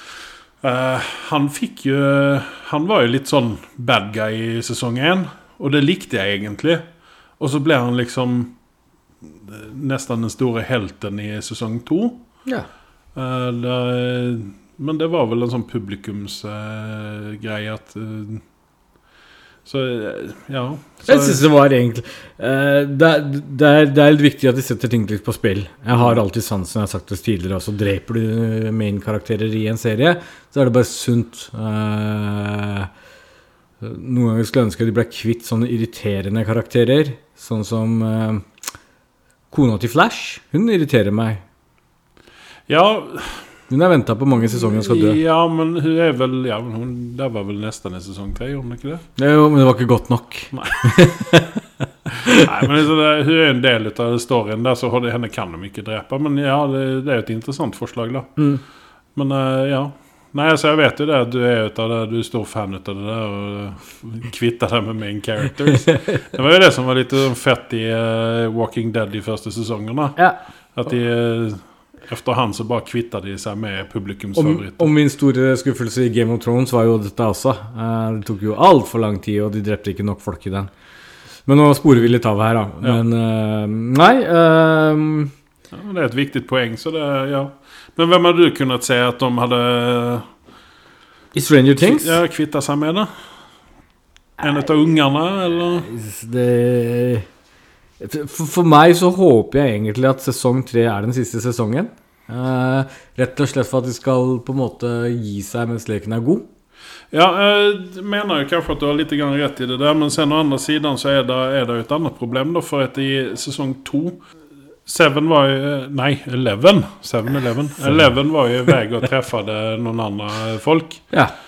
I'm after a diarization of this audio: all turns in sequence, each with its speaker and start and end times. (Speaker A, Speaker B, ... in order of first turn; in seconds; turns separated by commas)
Speaker A: 0.6-6.8, Speaker A: 7.4-8.5, Speaker A: 9.3-12.2, Speaker A: 13.2-18.4, Speaker A: 19.7-21.4, Speaker B: 21.1-32.9, Speaker B: 33.8-38.5, Speaker B: 39.5-41.4, Speaker A: 42.7-43.5, Speaker B: 43.7-45.2, Speaker A: 44.4-49.0, Speaker B: 49.2-51.6, Speaker A: 50.5-50.9, Speaker B: 52.1-52.5, Speaker A: 52.3-58.3, Speaker A: 59.2-70.2, Speaker A: 70.8-74.9, Speaker B: 74.4-80.7, Speaker B: 81.5-85.3, Speaker A: 85.7-90.3, Speaker B: 91.3-92.2, Speaker A: 91.8-93.1, Speaker A: 94.4-95.9, Speaker B: 95.8-97.3, Speaker B: 98.0-106.5, Speaker A: 107.1-114.2, Speaker A: 114.9-121.0